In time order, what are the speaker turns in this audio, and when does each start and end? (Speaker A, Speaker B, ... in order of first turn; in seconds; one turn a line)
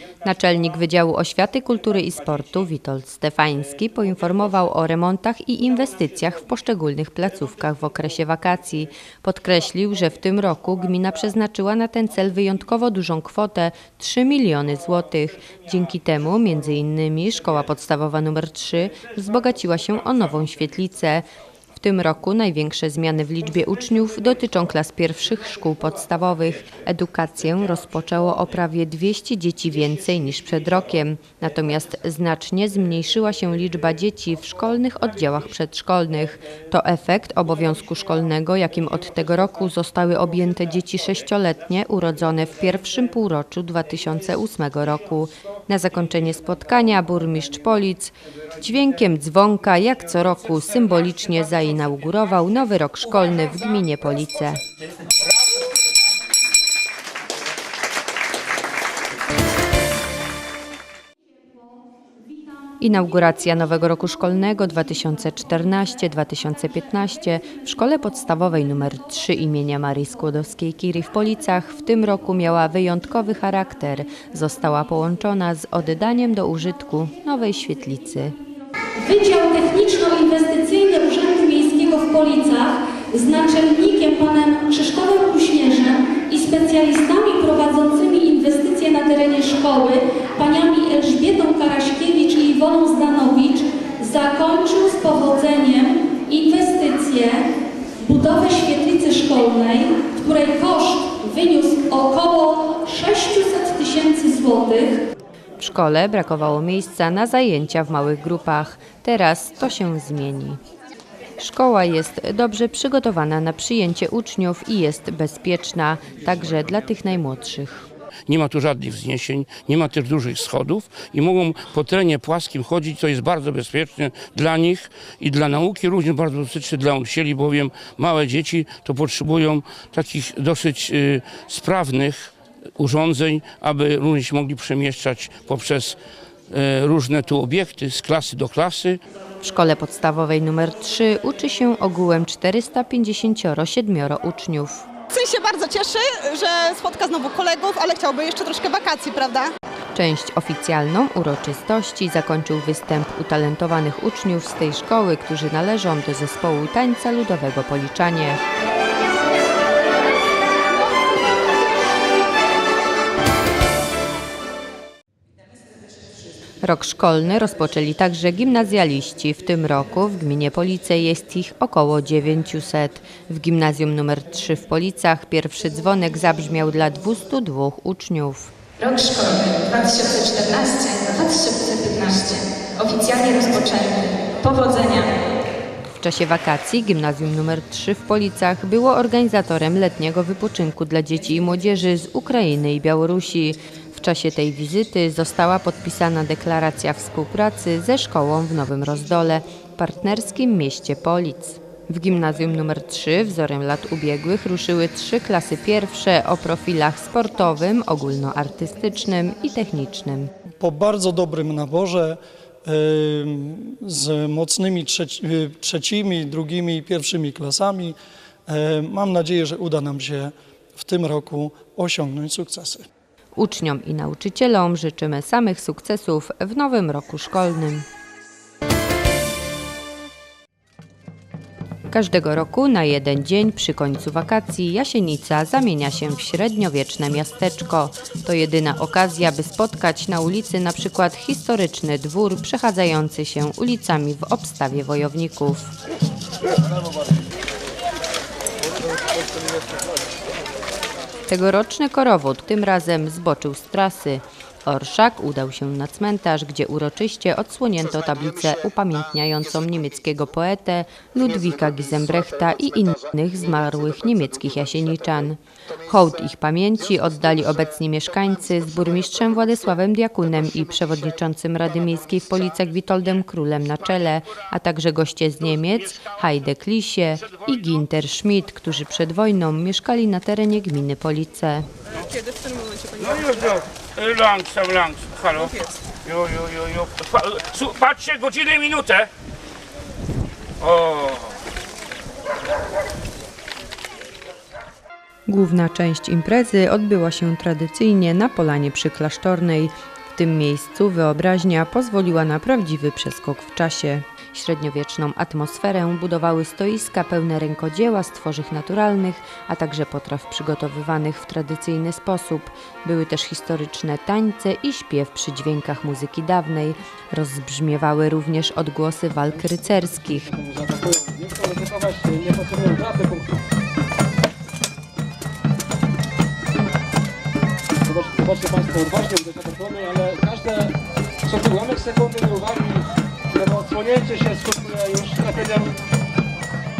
Speaker A: 0.2-54.6
Speaker A: 62.8-78.4
Speaker B: 79.0-97.4
Speaker B: 98.0-105.0
Speaker A: 105.6-110.6
Speaker A: 111.4-117.8
Speaker C: 118.3-136.0
Speaker C: 136.5-139.0
Speaker A: 139.4-144.8
Speaker A: 149.9-158.4
Speaker A: 166.6-178.5
Speaker D: 178.8-185.0
Speaker E: 179.3-181.6
Speaker A: 185.9-210.3
Speaker F: 210.6-222.8
Speaker A: 223.4-227.8
Speaker A: 231.9-245.7
Speaker A: 251.3-281.7
Speaker E: 282.1-283.2
Speaker C: 282.9-289.1
Speaker C: 290.6-291.3
Speaker A: 295.3-320.3
Speaker G: 319.3-323.4
Speaker G: 327.9-330.7
Speaker G: 331.2-335.7